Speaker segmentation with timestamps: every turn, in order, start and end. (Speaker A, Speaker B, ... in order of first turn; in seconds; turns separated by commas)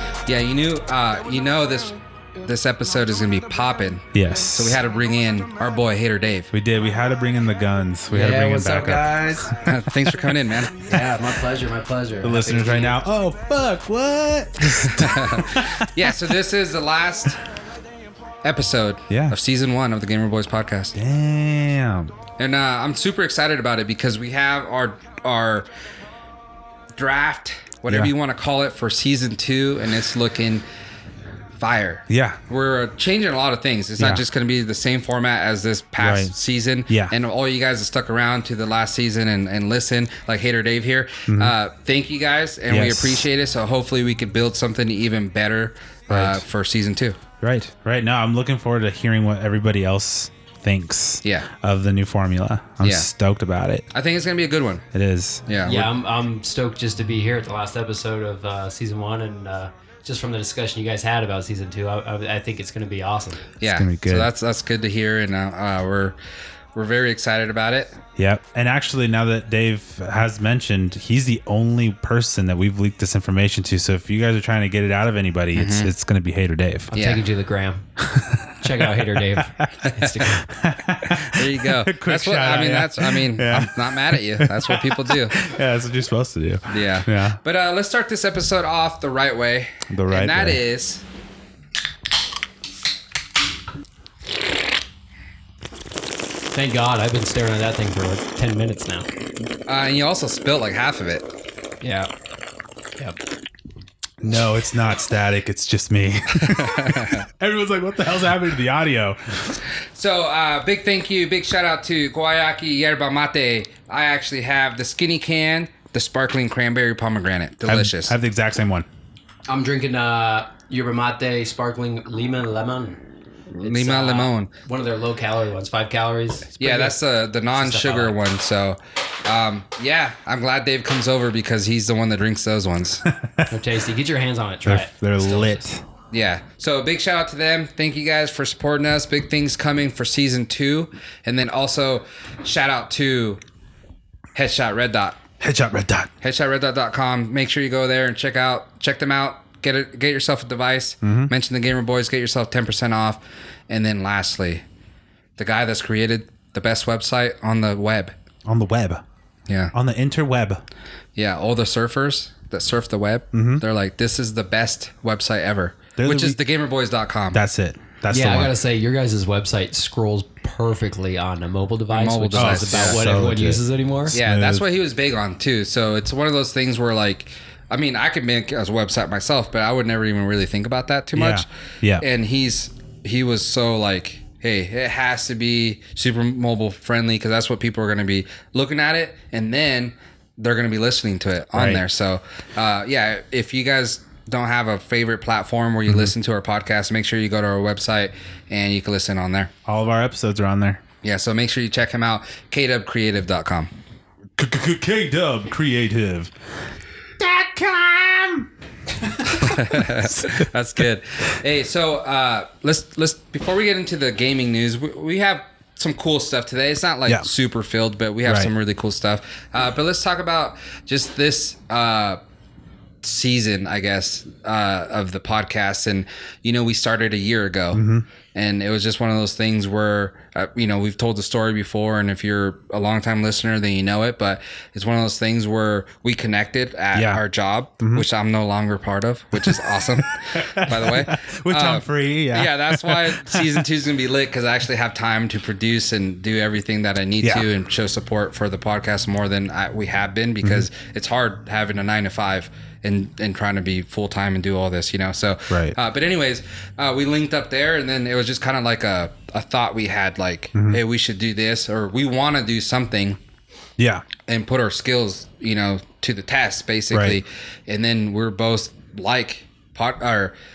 Speaker A: 0.3-6.5, Speaker B: 4.1-4.8, Speaker B: 6.5-10.1, Speaker C: 8.1-9.6, Speaker A: 9.7-10.9, Speaker C: 10.8-13.0, Speaker B: 12.2-16.2, Speaker A: 14.7-17.4, Speaker A: 18.4-20.9, Speaker B: 19.1-19.4, Speaker B: 20.9-22.1, Speaker A: 22.4-25.7, Speaker A: 27.0-30.6, Speaker B: 27.9-28.1, Speaker A: 31.6-47.2, Speaker B: 32.1-32.4, Speaker B: 36.0-36.3, Speaker B: 36.9-37.1, Speaker B: 41.3-41.5, Speaker B: 42.7-43.3, Speaker B: 46.1-46.4, Speaker B: 47.4-53.9, Speaker A: 51.2-51.5, Speaker A: 52.8-53.1, Speaker A: 53.9-54.9, Speaker B: 54.9-55.4, Speaker A: 55.5-55.9, Speaker C: 55.6-63.5, Speaker A: 63.6-66.2, Speaker B: 63.6-64.3, Speaker A: 66.8-68.0, Speaker B: 68.2-76.9, Speaker A: 75.5-75.9, Speaker C: 76.9-77.8, Speaker A: 76.9-77.2, Speaker B: 78.0-87.4, Speaker C: 78.6-80.4, Speaker A: 80.0-80.3, Speaker A: 81.3-85.4, Speaker A: 86.7-91.0, Speaker B: 89.9-90.6, Speaker C: 96.5-99.1, Speaker A: 99.7-101.3, Speaker C: 101.8-102.1, Speaker B: 104.2-109.6, Speaker A: 106.4-107.2, Speaker A: 109.9-118.2, Speaker B: 117.7-118.9, Speaker C: 119.5-123.0, Speaker A: 123.5-124.5, Speaker C: 123.6-127.0, Speaker A: 126.6-133.1, Speaker C: 127.5-128.1, Speaker B: 133.0-133.5, Speaker C: 133.5-135.6, Speaker B: 134.7-135.8, Speaker A: 136.1-143.4, Speaker A: 144.3-145.2, Speaker B: 145.4-146.1, Speaker A: 146.2-154.6, Speaker B: 151.0-151.3, Speaker A: 155.4-158.1, Speaker B: 158.5-159.0, Speaker A: 159.5-159.7, Speaker B: 159.7-160.6, Speaker A: 161.2-167.4, Speaker B: 163.3-163.6, Speaker B: 166.0-166.4, Speaker B: 167.3-168.6, Speaker C: 168.1-174.2, Speaker A: 171.9-173.1, Speaker B: 172.3-174.7, Speaker A: 174.1-181.5, Speaker B: 181.1-182.1, Speaker A: 182.0-199.5, Speaker B: 191.5-191.8, Speaker B: 195.9-196.1, Speaker B: 199.7-200.8, Speaker A: 201.0-203.7, Speaker B: 204.4-206.3, Speaker B: 207.2-210.8, Speaker A: 209.4-222.2, Speaker B: 218.2-218.5, Speaker A: 223.0-227.8, Speaker B: 227.7-228.1, Speaker A: 228.3-263.2, Speaker B: 236.9-237.2, Speaker B: 237.8-238.1, Speaker B: 239.4-243.7, Speaker B: 247.2-247.5, Speaker B: 255.5-255.8, Speaker B: 260.6-260.8, Speaker B: 263.8-264.1, Speaker A: 264.3-270.4, Speaker B: 266.9-267.2